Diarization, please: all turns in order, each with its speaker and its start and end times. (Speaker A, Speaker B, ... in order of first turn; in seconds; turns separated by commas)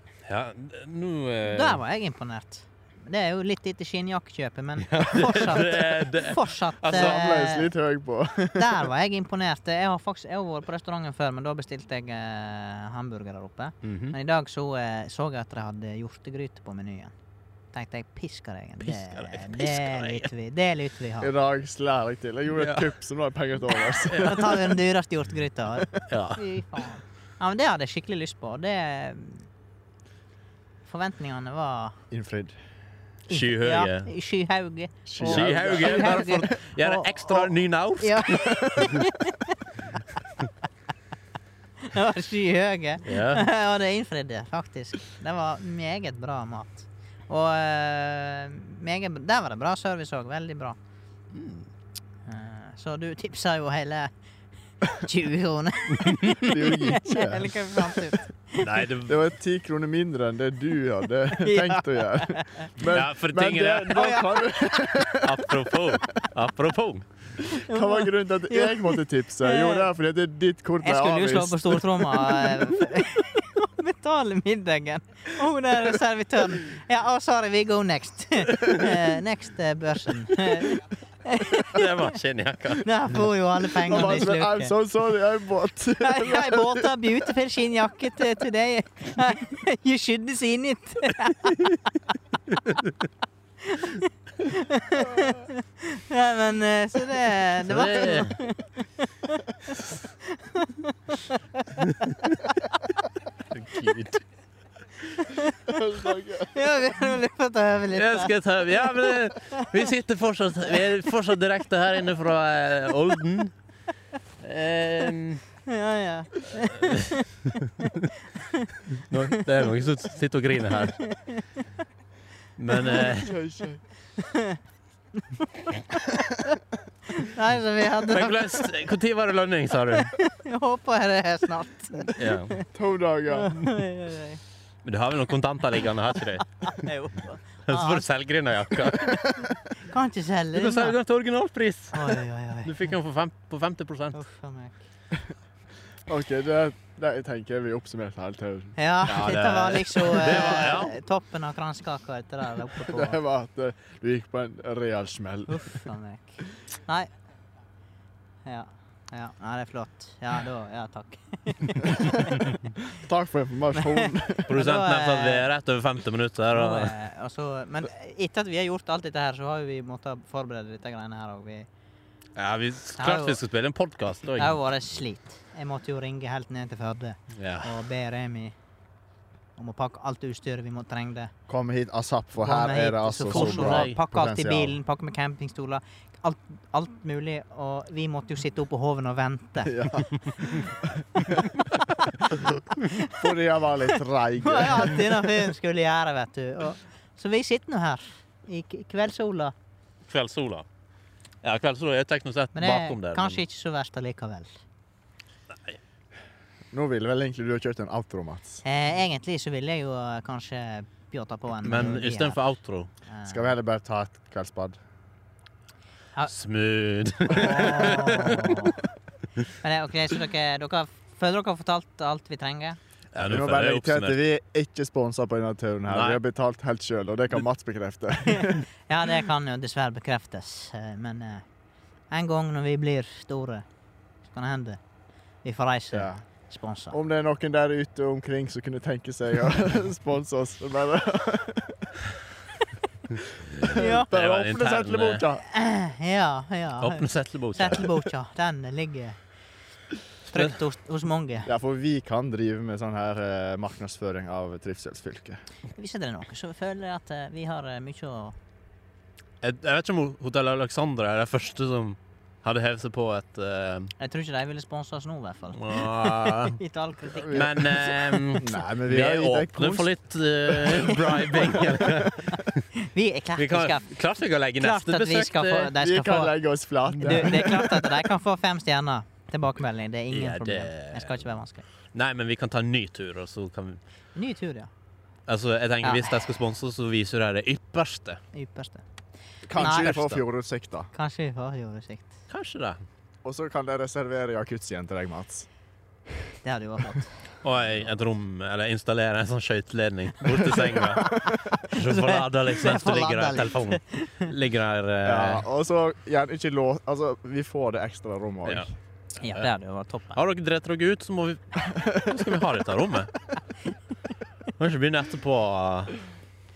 Speaker A: 0.2-1.8, Speaker B: 1.4-7.7, Speaker A: 4.8-7.2, Speaker C: 6.9-8.9, Speaker B: 8.6-17.1, Speaker A: 13.8-14.1, Speaker B: 17.7-21.3, Speaker A: 18.8-20.3, Speaker C: 21.2-24.5, Speaker A: 22.5-22.9, Speaker B: 24.0-29.5, Speaker A: 24.0-24.6, Speaker A: 26.0-26.6, Speaker B: 30.9-32.0, Speaker C: 32.1-32.5, Speaker B: 33.3-37.5, Speaker A: 33.3-34.1, Speaker C: 35.0-36.5, Speaker A: 35.2-39.0, Speaker B: 38.0-40.0, Speaker B: 41.8-50.8, Speaker A: 43.0-43.5, Speaker A: 51.3-51.7, Speaker B: 52.2-54.1, Speaker B: 54.8-58.7, Speaker A: 56.0-56.6, Speaker C: 56.3-58.1, Speaker A: 58.6-59.2, Speaker C: 59.0-65.4, Speaker B: 61.3-62.8, Speaker A: 62.9-64.0, Speaker B: 63.9-65.3, Speaker A: 65.1-67.0, Speaker B: 67.5-69.9, Speaker C: 67.5-72.6, Speaker B: 70.8-82.1, Speaker A: 78.6-79.0, Speaker A: 81.5-82.9, Speaker B: 82.8-84.7, Speaker C: 83.8-87.1, Speaker B: 86.0-92.2, Speaker B: 93.6-102.7, Speaker A: 97.6-98.4, Speaker A: 101.9-102.4, Speaker A: 103.5-104.2, Speaker B: 105.0-105.8, Speaker C: 105.7-106.5, Speaker B: 106.5-109.7, Speaker A: 107.9-113.5, Speaker A: 114.4-115.4, Speaker B: 115.7-119.4, Speaker A: 116.5-117.2, Speaker A: 119.0-121.0, Speaker B: 121.0-121.7, Speaker A: 122.6-123.4, Speaker B: 122.8-123.1, Speaker C: 123.1-123.8, Speaker B: 124.2-124.6, Speaker B: 125.1-128.6, Speaker A: 128.0-130.1, Speaker B: 129.9-132.7, Speaker A: 132.1-132.6, Speaker C: 132.6-133.6, Speaker B: 133.3-134.4, Speaker A: 134.8-136.9, Speaker B: 136.6-138.1, Speaker A: 137.7-139.3, Speaker B: 138.9-141.0, Speaker A: 140.5-144.2, Speaker B: 141.9-142.9, Speaker B: 144.1-144.8, Speaker C: 146.1-149.3, Speaker B: 148.8-153.2, Speaker A: 149.0-150.9, Speaker C: 152.8-155.8, Speaker B: 155.5-157.1, Speaker B: 158.4-162.4, Speaker C: 162.8-164.5, Speaker B: 163.8-165.4, Speaker A: 164.5-166.9, Speaker B: 166.5-171.7, Speaker A: 172.3-174.6, Speaker B: 173.0-173.4, Speaker B: 174.4-178.5, Speaker A: 177.3-177.7, Speaker B: 179.6-181.3, Speaker C: 181.5-184.8, Speaker B: 182.4-190.5, Speaker A: 183.3-183.9, Speaker C: 189.6-191.5, Speaker B: 191.2-193.2, Speaker C: 193.1-195.4, Speaker B: 193.9-199.5, Speaker A: 200.1-200.7, Speaker A: 201.4-203.4, Speaker B: 202.5-204.6, Speaker C: 206.7-208.6, Speaker B: 208.6-212.4, Speaker A: 211.6-212.9, Speaker B: 213.1-213.5, Speaker C: 213.2-214.8, Speaker A: 216.3-218.8, Speaker B: 217.3-218.8, Speaker B: 219.6-222.8, Speaker A: 223.1-224.2, Speaker C: 223.2-228.6, Speaker A: 225.9-226.2, Speaker B: 228.2-231.4, Speaker B: 232.1-233.6, Speaker B: 234.3-234.8, Speaker B: 235.4-237.0, Speaker C: 235.9-236.2, Speaker C: 236.9-241.9, Speaker A: 243.5-245.3, Speaker C: 243.5-245.4, Speaker B: 243.7-244.1, Speaker B: 245.5-249.2, Speaker A: 246.8-248.1, Speaker B: 250.3-251.5, Speaker A: 250.3-250.6, Speaker C: 251.4-255.4, Speaker B: 255.7-258.4, Speaker A: 259.4-263.9, Speaker B: 264.0-267.6, Speaker A: 265.6-266.6, Speaker C: 267.1-269.9, Speaker A: 267.3-272.7, Speaker C: 270.5-270.8, Speaker B: 270.7-273.9, Speaker C: 271.4-271.8, Speaker A: 273.4-275.7, Speaker B: 274.6-276.3, Speaker C: 275.8-277.8, Speaker B: 277.0-281.6, Speaker A: 277.0-277.4, Speaker A: 280.1-281.3, Speaker A: 281.9-283.8, Speaker B: 284.1-284.7, Speaker A: 285.3-288.2, Speaker B: 285.8-286.2, Speaker B: 288.3-288.8, Speaker C: 289.4-290.9, Speaker B: 289.6-290.2, Speaker A: 289.7-290.2, Speaker B: 290.9-292.1, Speaker A: 292.3-292.8, Speaker C: 293.2-295.5, Speaker B: 296.4-297.2, Speaker A: 297.4-305.4, Speaker C: 300.3-301.4, Speaker B: 301.1-304.3, Speaker C: 305.0-308.7, Speaker B: 309.2-310.2, Speaker A: 310.1-313.1, Speaker A: 314.5-316.0